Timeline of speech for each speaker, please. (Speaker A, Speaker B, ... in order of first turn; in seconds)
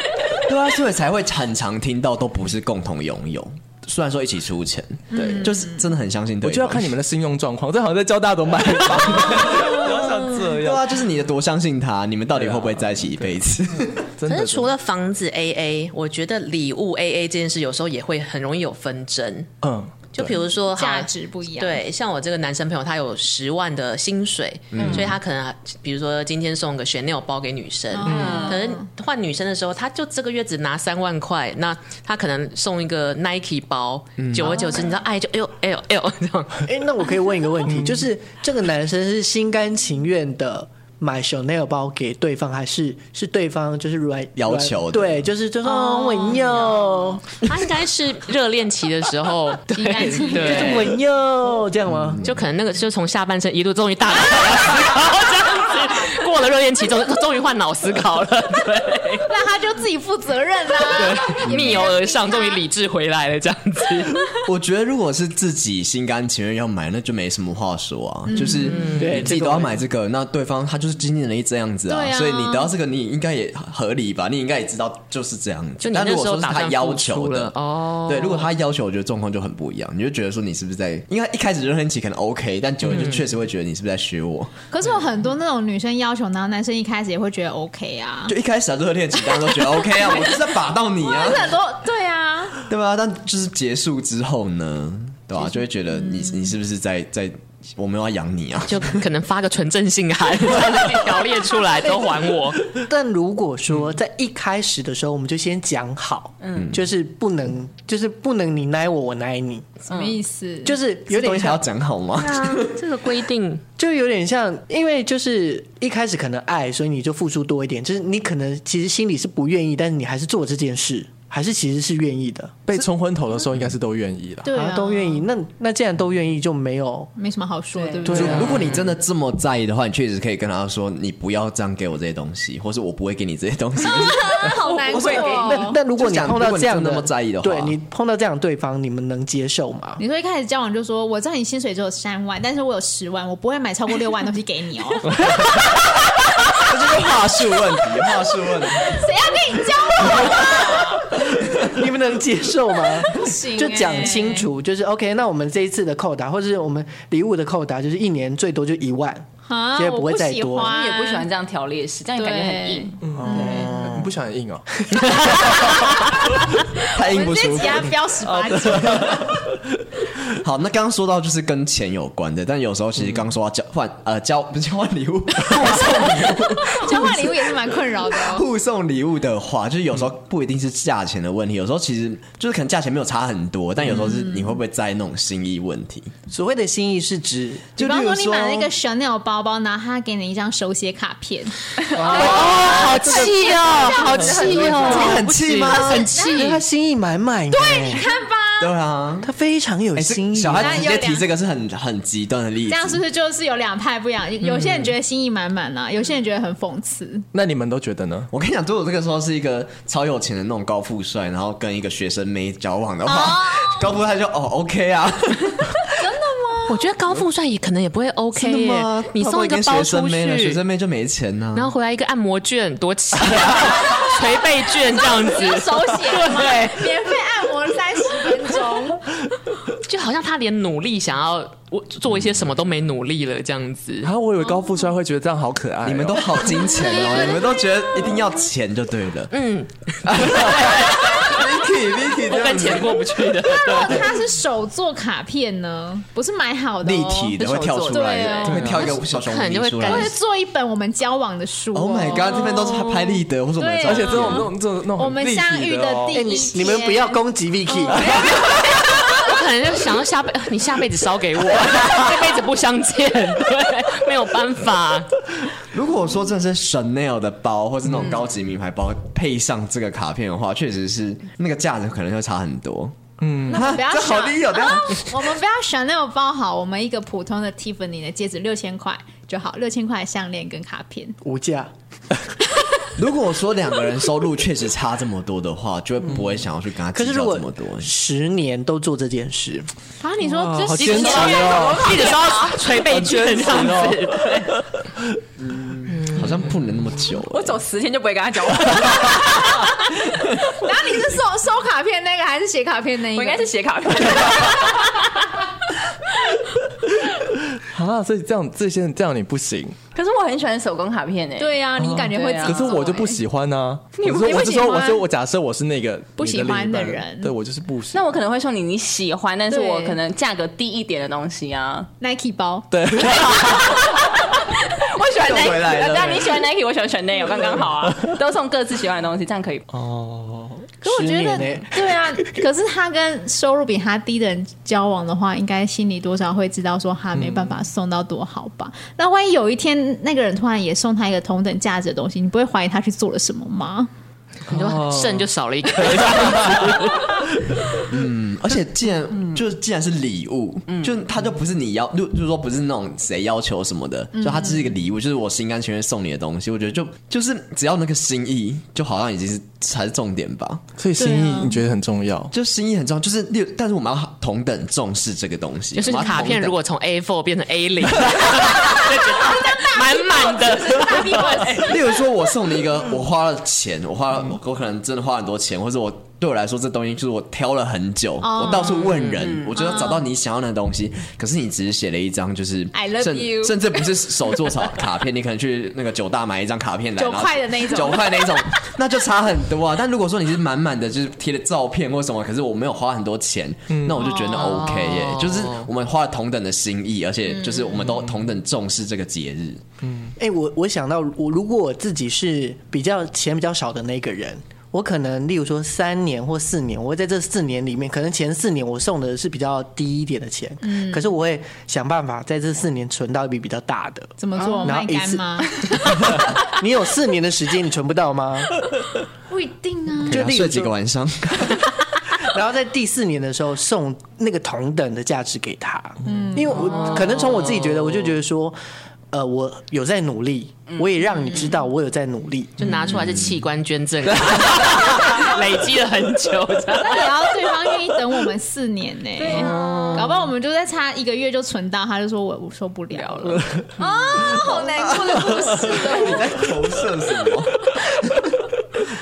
Speaker A: 0.4-6.9, 10.4-14.0, 24.7-25.1, 34.2-34.6, 44.4-45.2, 51.9-52.3, 64.5-77.5, 78.0-84.5, 88.3-91.5, 92.7-99.0, 106.5-106.8, 111.1-112.8, 128.1-137.7, 146.5-149.0, 166.9-167.9, 168.9-169.3, 170.4-186.1, 187.8-188.7, 192.0-192.8, 194.8-196.2, 198.6-199.3, 199.9-203.0, 208.3-216.0, 218.3-221.7, 235.8-239.3, 240.1-243.1, 246.8-250.1, 251.7-254.4, 258.1-258.3, 265.7-272.9, 273.5-275.3, 282.9-287.9, 295.5-297.6, 325.2-326.4, 347.9-360.6, 362.3-366.6, 371.5-399.6, 420.1-421.7, 432.7-433.2, 439.6-440.1, 444.8-448.1
Speaker B: 5.1-5.8, 20.6-21.8, 27.9-28.9, 45.6-46.6, 49.7-50.9, 59.2-62.6, 68.3-68.9, 71.9-72.7, 84.7-88.3, 89.4-90.3, 91.0-92.6, 95.9-96.5, 109.9-111.5, 124.4-125.2, 127.2-128.6, 133.8-135.8, 140.0-145.5, 148.7-151.1, 153.0-154.5, 159.4-161.3, 162.1-163.7, 166.8-169.3, 176.0-178.4, 184.1-184.5, 187.8-196.5, 197.5-198.7, 200.5-201.2, 202.7-207.2, 213.1-213.9, 216.0-216.8, 224.9-229.1, 236.7-237.7, 243.4-248.9, 249.8-259.1, 273.5-281.2, 290.0-292.3, 300.5-303.5, 304.2-304.5, 311.4-313.2, 314.0-315.0, 316.2-317.3, 319.5-320.0, 322.0-322.7, 330.8-343.9, 361.0-361.6, 368.6-371.8, 378.2-380.1, 382.7-383.9, 387.0-388.4, 410.6-411.1, 414.2-416.3, 419.3-420.3, 426.1-426.9, 436.8-446.4
Speaker C: 5.1-5.5, 6.4-11.0, 12.3-13.4, 14.0-14.7, 19.6-20.4, 37.7-38.0, 122.7-124.5, 128.2-128.6, 163.0-165.2, 168.3-169.6, 207.3-208.3, 234.0-236.5, 248.5-248.8, 253.8-256.4, 273.2-273.7, 290.2-291.9, 292.9-294.4, 307.5-309.8, 311.8-318.1, 322.7-323.8, 327.9-328.1, 329.7-330.7, 337.1-337.5, 344.5-345.2, 346.2-346.7, 360.8-362.3, 393.7-394.1, 399.8-400.1
Speaker D: 14.3-19.5, 20.1-36.7, 47.4-51.0, 52.2-59.3, 60.9-64.3, 68.5-69.2, 75.8-78.5, 82.9-83.2, 98.7-102.7, 112.2-113.6, 165.3-165.9, 192.1-196.6, 204.4-204.9, 216.7-220.6, 221.5-226.9, 229.8-234.1, 239.3-241.6, 242.2-244.1, 248.8-250.1, 258.9-265.2, 290.8-294.5, 295.9-296.3, 344.4-347.3, 365.7-371.7, 394.2-395.7, 432.6-437.3, 439.3-440.0
Speaker E: 28.1-28.6, 109.9-110.2, 127.7-128.8, 134.4-135.7, 160.6-163.1, 192.0-195.3, 247.3-248.6, 290.8-292.7, 297.2-299.7, 303.1-304.9, 309.9-312.7, 314.0-314.8, 317.9-321.9, 323.4-329.6, 350.7-350.9, 379.2-379.8, 414.4-414.8, 426.6-427.3, 439.2-440.0, 442.9-444.7, 445.5-446.3
Speaker F: 36.6-47.2, 50.3-52.2, 69.0-69.8, 102.8-109.7, 110.6-111.6, 113.8-122.6, 124.5-127.1, 128.1-128.6, 135.2-140.0, 151.6-160.7, 163.2-164.1, 186.3-187.7, 196.3-198.1, 199.2-201.0, 256.1-258.2, 281.2-281.7, 286.9-289.7, 330.8-331.7, 400.2-418.6, 420.1-420.8, 422.1-428.6, 429.1-432.6